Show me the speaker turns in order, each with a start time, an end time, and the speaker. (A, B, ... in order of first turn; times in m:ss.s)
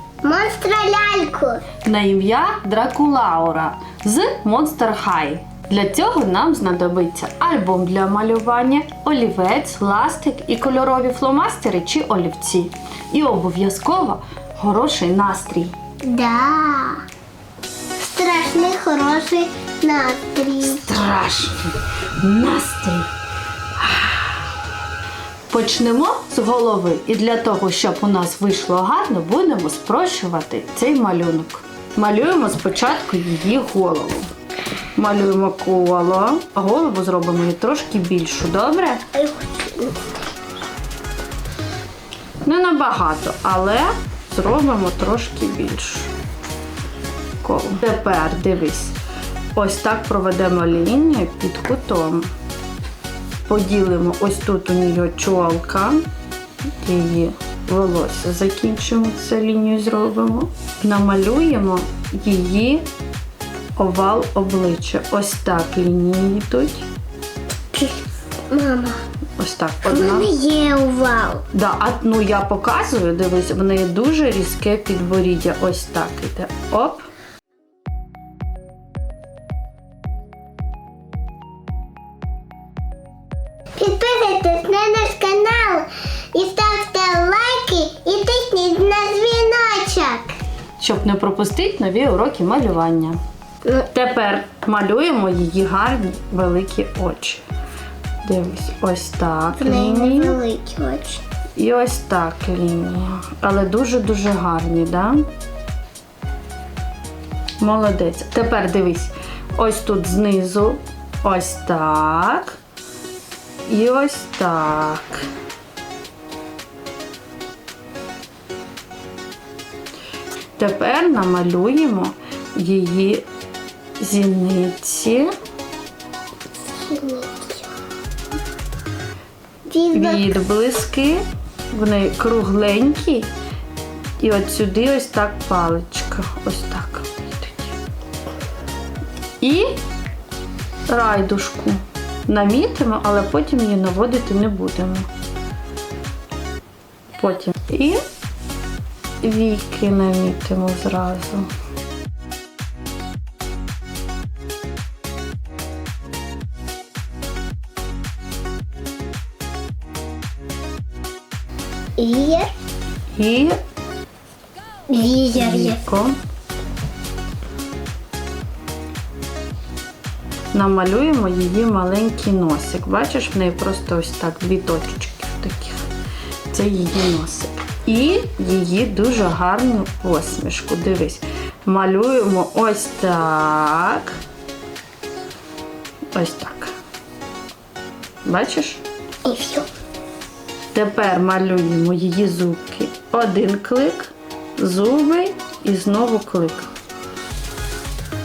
0:00.2-0:01.6 A
0:01.8-0:15.8 B
0:16.0-0:17.0 A
0:18.0-0:21.0 A
0:20.7-0:23.1 B
0:23.8-0:24.5 B
0:25.5-0:34.3 B
0:35.0-0:39.1 B
0:39.1-0:40.1 A
0:42.4-0:46.1 B
0:47.4-0:49.0 B
0:49.6-0:52.3 B
0:53.4-0:56.0 B
0:56.8-1:02.8 B
1:03.8-1:06.8 B
1:07.7-1:09.0 A
1:09.4-1:10.3 B
1:09.9-1:11.4 A
1:11.5-1:17.1 B
1:23.8-1:30.4 A
1:30.8-1:33.2 B
1:33.9-1:37.4 B
1:38.2-1:40.4 B
1:39.6-1:41.2 A
1:41.6-1:45.2 B
1:47.6-1:52.6 B
1:53.7-1:55.3 B
2:00.6-2:03.2 B
2:04.0-2:05.3 B
2:06.7-2:07.7 A
2:09.7-2:10.4 A
2:09.9-2:13.3 B
2:14.2-2:17.7 B
2:19.4-2:19.8 B
2:20.9-2:25.1 B
2:27.2-2:28.0 B
2:29.2-2:31.5 B
2:42.0-2:42.5 A
2:43.2-2:43.6 B
2:44.9-2:45.8 A
2:45.3-2:46.2 B
2:50.5-2:55.9 B
2:56.5-3:04.2 B
3:06.1-3:06.7 B
3:08.2-3:08.8 B
3:09.2-3:09.7 A
3:10.7-3:16.7 B